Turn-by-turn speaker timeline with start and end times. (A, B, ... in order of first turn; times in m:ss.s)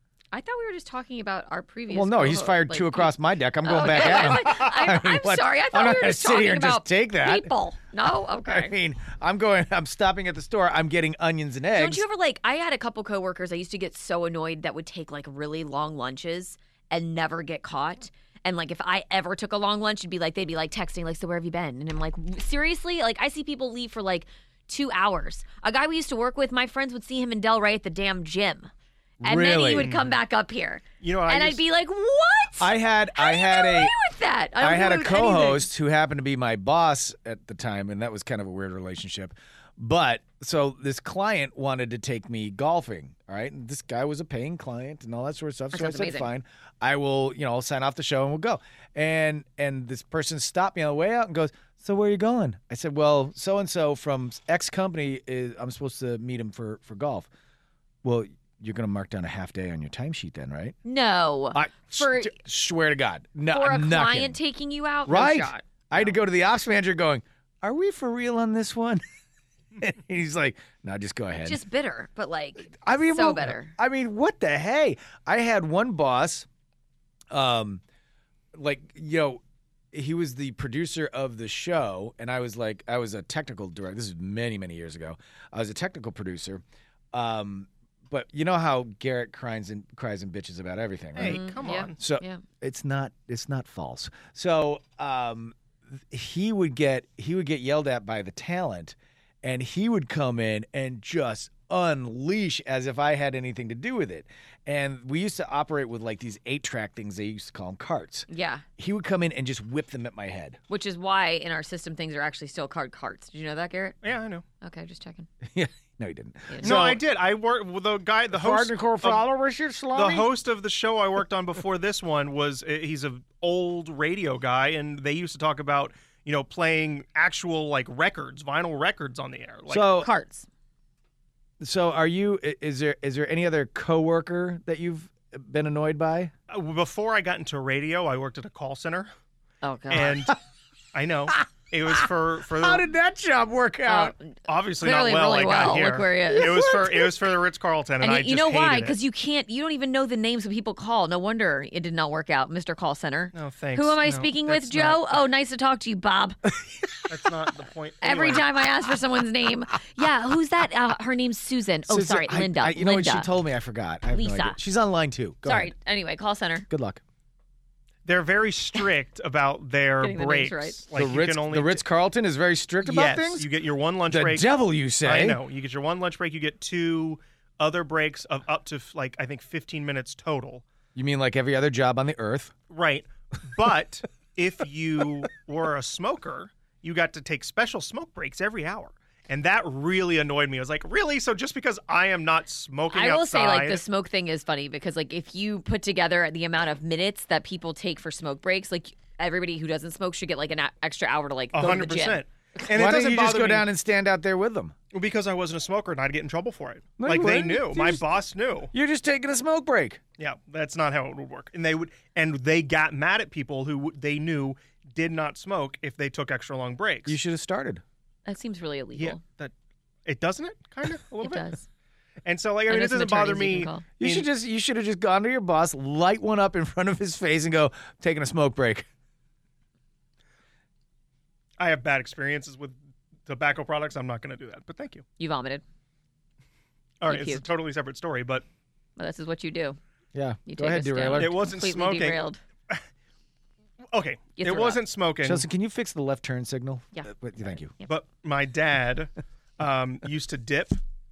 0:00.3-0:08.7 A
0:01.9-0:07.5 B
0:08.4-0:12.0 B
0:11.7-0:28.7 A
0:29.2-0:29.9 B
0:29.2-0:35.7 A
0:29.8-0:30.2 C
0:31.0-0:31.6 C
0:32.6-0:34.0 B
0:34.6-0:57.3 B
0:45.7-0:46.3 A
0:58.0-1:00.8 B
1:00.8-1:02.3 A
1:01.5-1:04.4 B
1:03.5-1:06.2 A
1:05.0-1:09.0 B
1:09.8-1:11.6 B
1:11.4-1:13.7 A
1:12.7-1:16.5 B
1:17.3-1:17.8 B
1:18.5-1:19.4 B
1:19.9-1:48.3 B
1:31.1-1:32.0 C
1:31.2-1:32.4 A
1:48.3-1:48.6 A
1:48.8-1:50.6 B
1:50.7-1:54.0 A
1:54.0-1:54.4 C
1:54.6-1:55.3 A
1:55.4-1:57.0 B
1:56.5-1:56.7 A
1:56.6-1:59.2 C
1:58.3-2:00.3 B
1:59.9-2:09.9 C
2:09.7-2:10.1 B
2:09.9-2:10.5 A
2:11.6-2:16.3 B
2:16.5-2:19.1 C
2:19.6-2:20.3 A
2:19.9-2:20.4 C
2:20.9-2:22.9 C
2:22.5-2:24.1 B
2:23.8-2:26.7 A
2:24.5-2:29.0 C
2:26.3-2:27.1 B
2:28.0-2:36.4 A
2:33.3-2:35.2 C
2:37.1-2:38.5 C
2:38.0-2:43.3 A
2:41.9-2:45.7 B
2:44.1-2:44.6 A
2:45.4-2:46.7 A
2:46.7-2:47.0 B
2:48.0-2:51.8 C
2:50.0-2:50.8 A
2:50.9-2:53.5 B
2:52.8-3:00.6 C
2:54.1-2:55.4 B
3:00.9-3:02.5 B
3:02.7-3:13.8 C
3:12.9-3:22.2 A
3:21.5-3:23.7 C
3:22.7-3:24.7 B
3:24.9-3:28.7 C
3:27.0-3:28.0 B
3:28.7-3:30.0 B
3:30.2-3:37.2 C
3:37.0-3:37.8 B
3:38.2-3:39.2 A
3:39.0-3:39.5 C
3:40.0-3:41.6 C
3:41.2-3:41.6 A
3:42.2-3:44.3 C
3:42.7-3:43.8 A
3:44.0-3:48.9 B
3:51.6-3:55.0 C
3:55.2-3:55.6 A
3:57.0-3:58.4 C
3:57.0-3:57.4 A
3:59.0-3:59.8 A
4:00.1-4:01.4 B
4:00.4-4:02.4 A
4:01.2-4:02.8 C
4:03.9-4:05.4 C
4:04.4-4:04.8 A
4:05.2-4:07.7 B
4:07.8-4:10.8 C